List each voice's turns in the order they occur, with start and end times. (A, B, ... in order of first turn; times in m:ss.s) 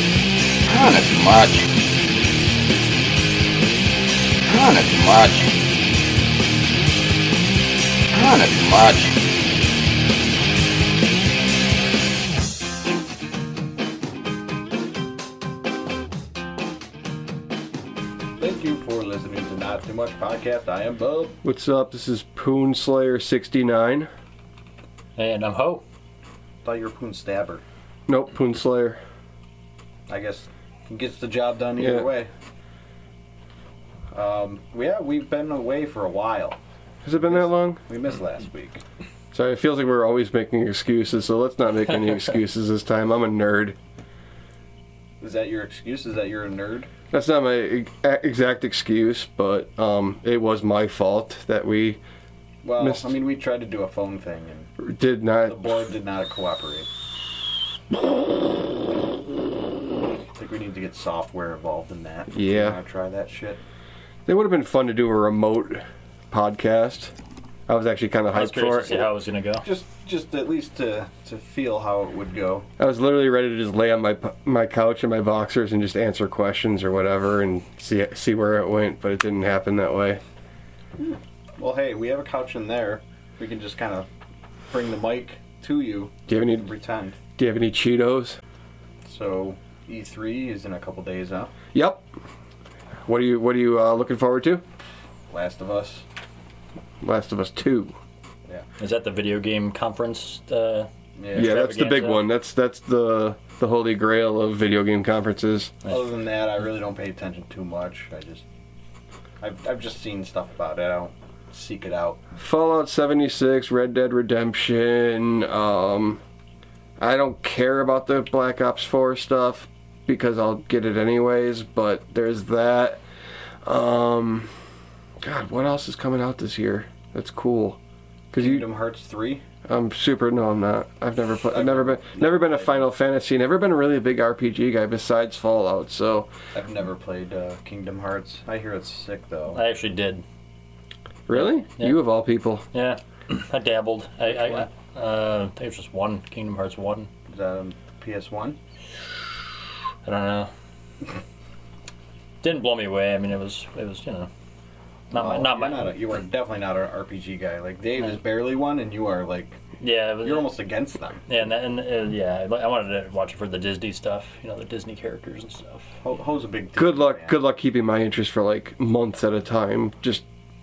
0:00.6-0:01.7 A
0:04.4-0:05.6 A
0:08.1-0:09.2 A
0:18.4-0:21.4 B
0:21.4-0:24.1 C
0:25.2-0:25.8 D
0:26.6-0:27.6 B
0:28.1-0:29.0 C
0:30.1-0:32.3 B
0:31.8-0:32.1 C
0:34.1-0:36.6 B
0:37.0-0:37.8 C
0:37.2-0:38.8 B
0:39.3-0:43.8 C
0:45.2-0:46.9 B
0:47.1-0:52.0 C
0:52.6-0:54.7 B
0:52.8-0:53.2 C
0:54.8-0:55.9 C
0:55.5-0:56.9 B
1:00.3-1:03.6 B
1:02.3-1:02.8 C
1:04.2-1:07.1 C
1:07.7-1:09.1 C
1:08.3-1:09.7 D
1:09.6-1:12.7 B
1:12.8-1:20.2 C
1:21.0-1:24.1 B
1:24.7-1:27.2 B
1:26.3-1:26.7 C
1:27.4-1:28.4 C
1:29.0-1:31.5 B
1:31.7-1:32.0 C
1:33.0-1:34.6 C
1:35.3-1:36.0 B
1:37.0-1:38.0 C
1:38.8-1:42.2 D
1:41.2-1:41.6 B
1:41.3-1:45.7 C
1:45.9-1:48.4 B
1:49.4-1:52.2 B
1:52.4-1:56.2 C
1:57.0-2:03.0 C
2:03.6-2:04.5 C
2:05.2-2:07.8 C
2:08.3-2:08.7 C
2:08.4-2:09.4 B
2:09.7-2:16.3 C
2:11.5-2:12.9 B
2:16.5-2:19.6 B
2:19.5-2:20.2 D
2:21.3-2:22.7 C
2:21.3-2:22.0 D
2:22.7-2:27.1 D
2:24.3-2:24.7 B
2:27.3-2:28.6 B
2:30.0-2:30.5 D
2:32.4-2:34.3 D
2:35.1-2:36.0 D
2:35.1-2:39.6 B
2:39.8-2:40.5 D
2:40.2-2:41.2 B
2:41.3-2:46.0 D
2:46.0-2:47.4 B
2:46.8-2:50.2 C